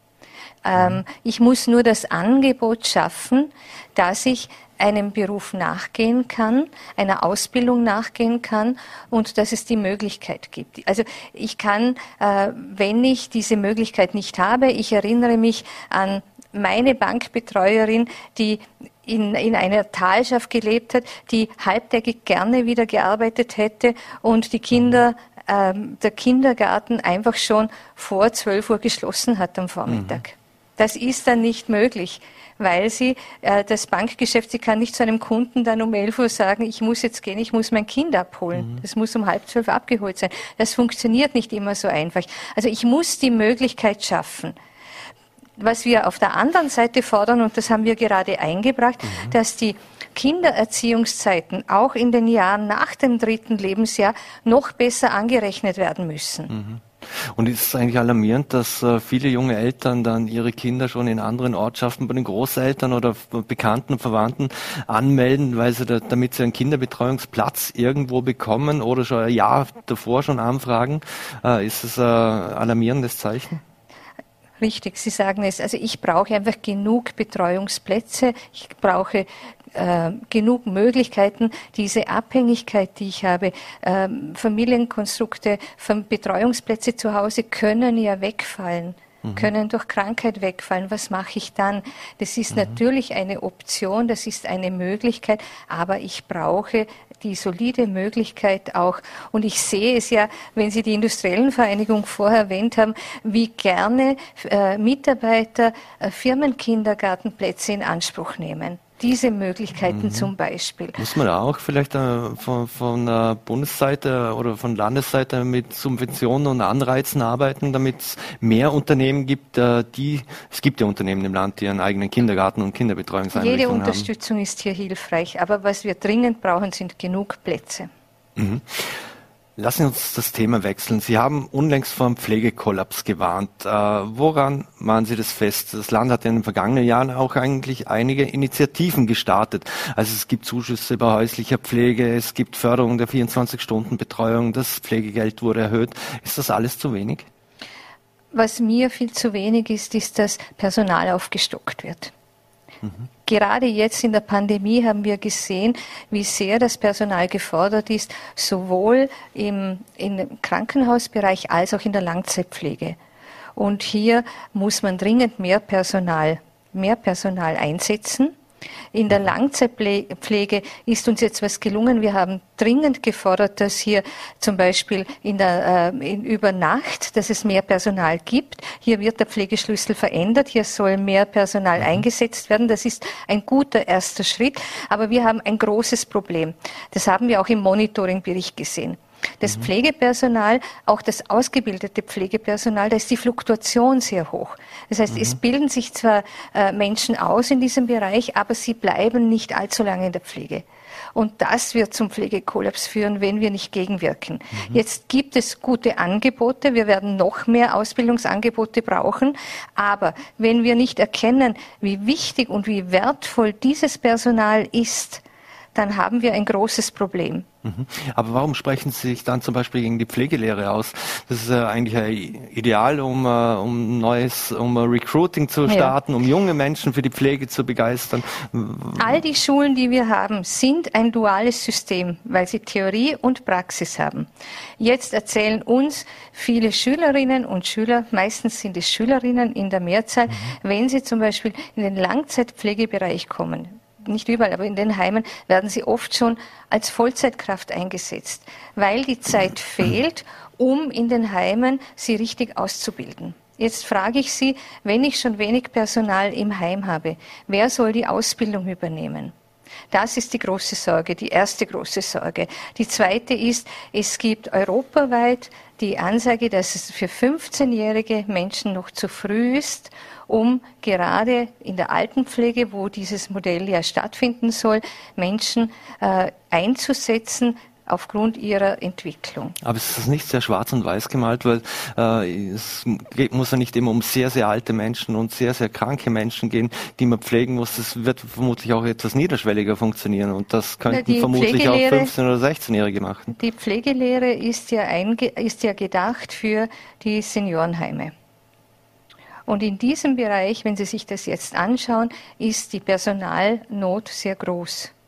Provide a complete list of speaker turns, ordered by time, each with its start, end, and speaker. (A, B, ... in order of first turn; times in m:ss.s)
0:00.6-0:44.6 A
0:29.9-0:30.2 B
0:38.5-0:38.8 B
0:45.6-0:56.5 A
0:49.0-0:49.3 B
0:56.5-1:13.6 B
1:14.6-1:51.0 A
1:29.2-1:29.5 B
1:49.8-1:50.3 B
1:51.0-2:04.1 B
2:03.3-2:07.9 A
2:08.4-2:09.0 B
2:09.6-2:27.3 B
2:28.3-2:32.1 A
2:33.2-2:43.0 A
2:43.6-2:48.3 A
2:48.9-3:35.2 A
3:01.8-3:02.0 B
3:15.1-3:15.4 B
3:35.7-3:37.5 A
3:37.6-3:49.2 B
3:45.7-3:45.9 A
3:49.0-4:19.3 A
4:19.9-4:39.6 A
4:39.6-4:53.3 B
4:50.9-4:52.1 A
4:53.3-4:58.1 A
4:59.5-5:04.9 A